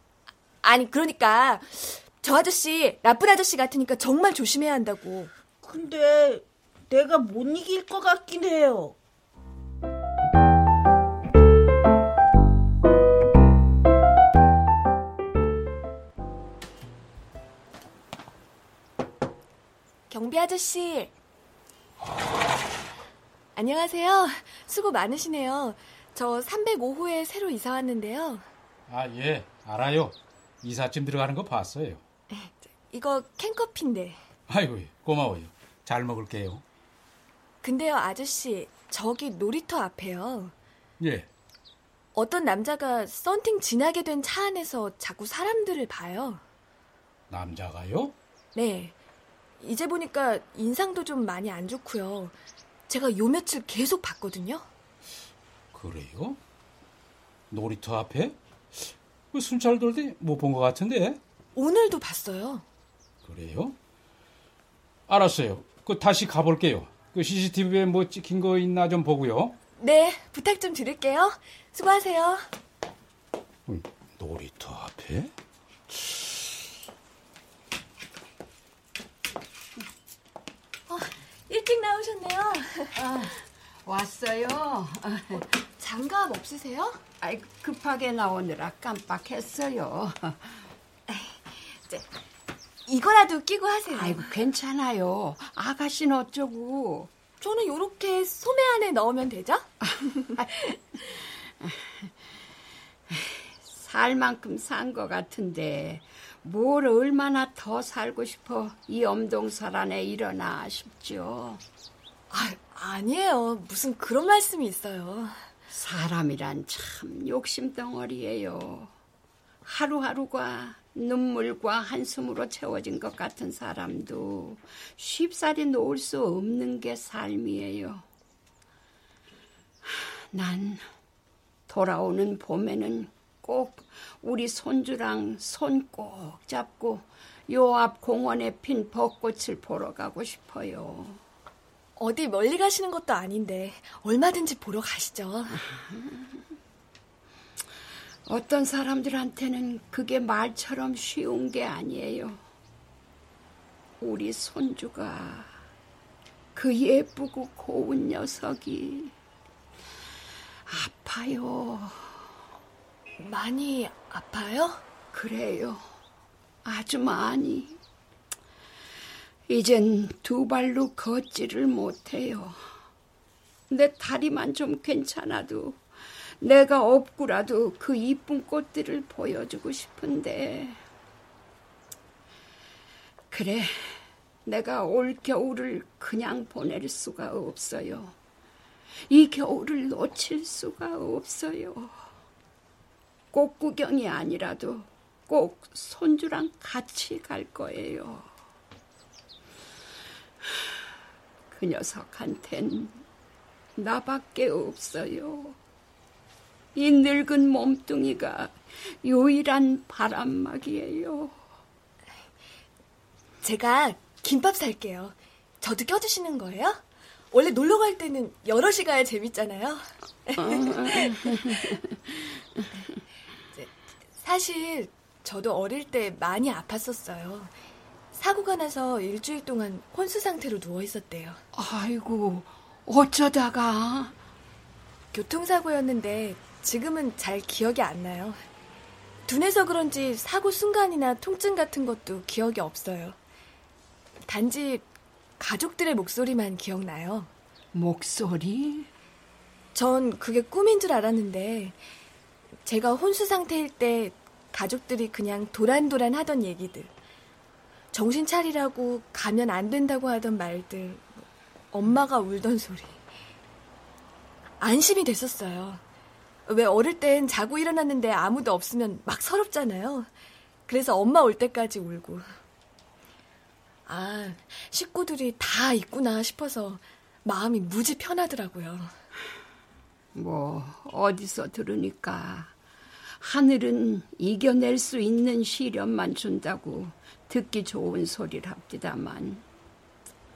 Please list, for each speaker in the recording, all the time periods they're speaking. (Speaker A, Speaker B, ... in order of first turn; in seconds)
Speaker A: 0.6-5.3, 20.1-21.1, 23.6-28.4, 32.3-34.2, 37.6-40.5, 42.1-46.4, 48.5-48.9, 49.6-52.3, 52.9-54.6, 61.5-62.6, 69.8-72.5, 80.9-83.0, 85.3-87.0, 91.1-91.3, 92.9-94.2, 97.4-99.7, 112.3-115.4, 142.0-145.6, 163.2-164.8, 213.4-216.8, 217.3-221.7, 223.6-227.5, 228.1-231.4, 235.1-238.4, 239.3-243.2, 244.3-244.8, 245.4-247.3, 249.7-251.8, 252.6-256.9, 257.9-261.1, 261.7-263.0, 264.6-265.8, 266.5-270.1, 270.7-272.2, 273.9-278.9
Speaker B: 5.6-8.9
Speaker C: 28.9-32.0, 34.5-36.6, 41.0-41.3, 47.3-48.1, 55.7-56.4, 57.5-61.2, 63.2-63.8, 65.1-69.5, 73.7-75.3
Speaker D: 83.0-85.4, 87.2-90.5, 93.9-97.1, 100.3-100.7, 101.6-102.1, 103.1-111.6, 115.7-118.9, 119.6-128.0, 129.8-130.9, 131.7-141.2, 145.5-146.4, 148.2-152.4, 154.0-155.5, 156.5-159.1, 160.7-162.1, 165.1-165.9, 166.6-167.8, 169.5-172.6, 173.7-175.8, 176.4-180.8, 183.3-188.2, 189.1-191.9, 193.3-198.3, 201.5-203.0, 203.8-205.6, 206.7-211.3, 220.4-222.2, 231.5-234.1, 247.7-248.9, 280.1-282.5, 283.2-289.4